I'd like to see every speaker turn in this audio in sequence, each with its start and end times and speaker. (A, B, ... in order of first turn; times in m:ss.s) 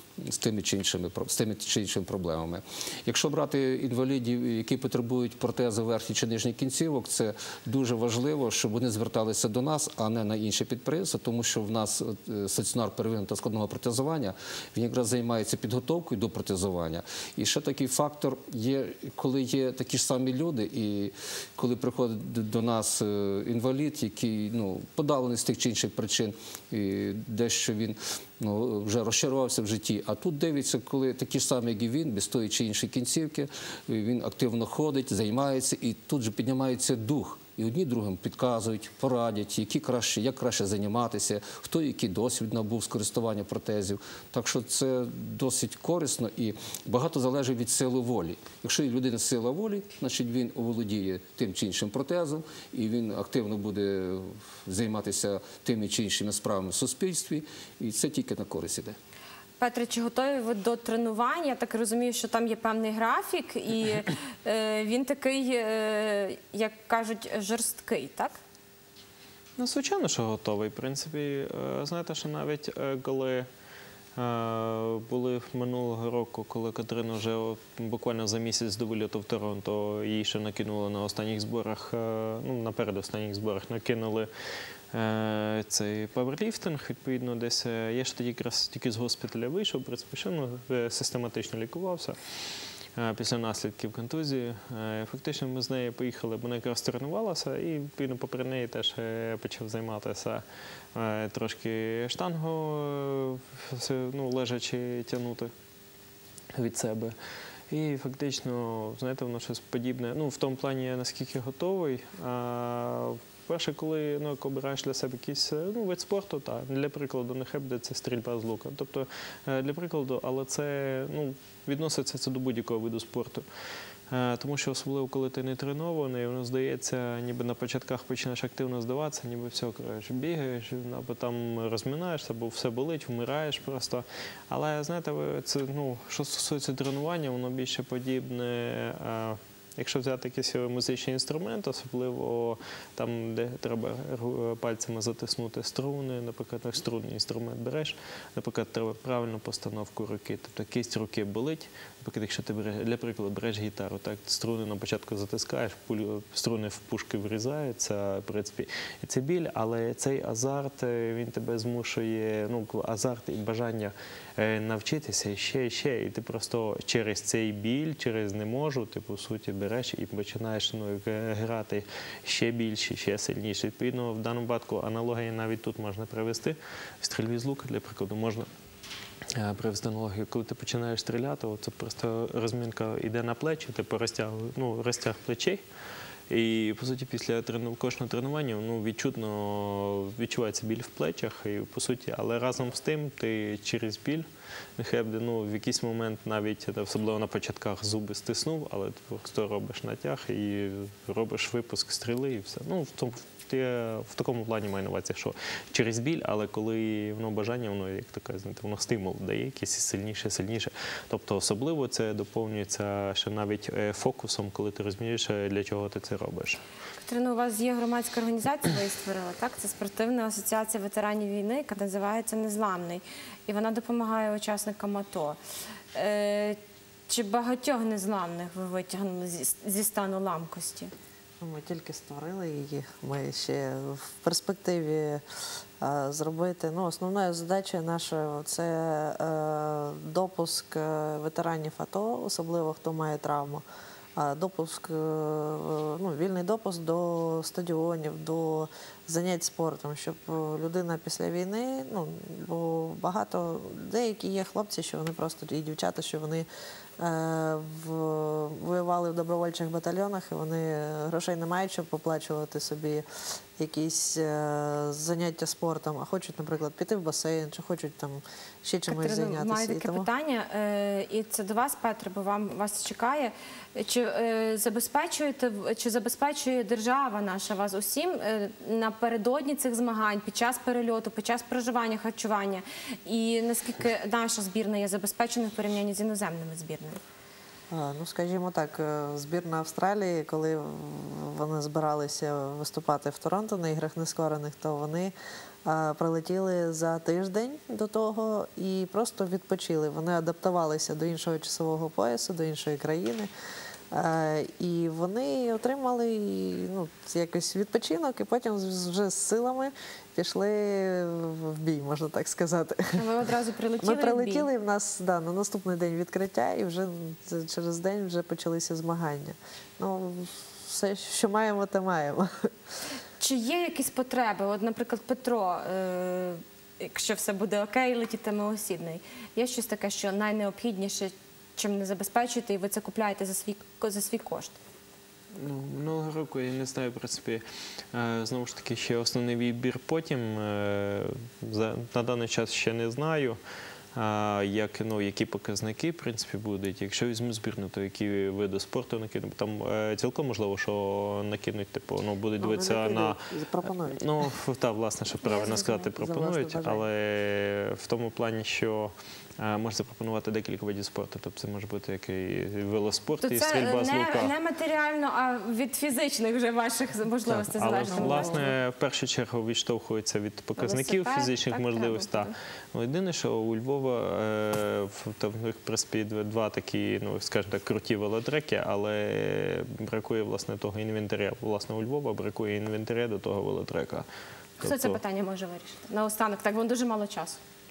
0:00.2-0:59.0 A
0:59.6-1:08.4 B
1:09.6-1:13.5 C
1:14.2-1:24.3 C
1:24.9-1:32.2 C
1:33.0-1:40.4 C
1:41.0-1:45.5 C
1:46.5-1:47.1 C
1:47.7-2:03.4 C
2:04.1-2:58.5 C
2:59.3-3:05.6 C
3:06.3-3:14.3 C
3:14.8-3:36.6 C
3:37.0-3:45.4 B
3:45.9-3:50.9 B
3:51.4-3:55.2 D
3:55.8-4:03.6 D
4:04.2-4:16.5 D
4:17.0-4:23.0 D
4:23.6-4:30.1 D
4:28.9-4:47.0 B
4:47.7-4:55.1 D
4:55.6-5:03.3 D
5:03.9-5:13.0 D
5:13.0-5:14.5 B
5:13.8-5:22.5 D
5:23.2-5:34.6 B
5:35.3-5:43.4 C
5:44.0-6:04.3 C
5:52.4-5:54.3 D
5:55.2-5:55.9 B
5:56.0-5:56.9 D
6:03.2-6:08.5 B
6:07.3-6:24.1 C
6:07.7-6:08.5 D
6:10.6-6:12.3 B
6:24.6-6:25.0 C
6:24.6-6:27.4 B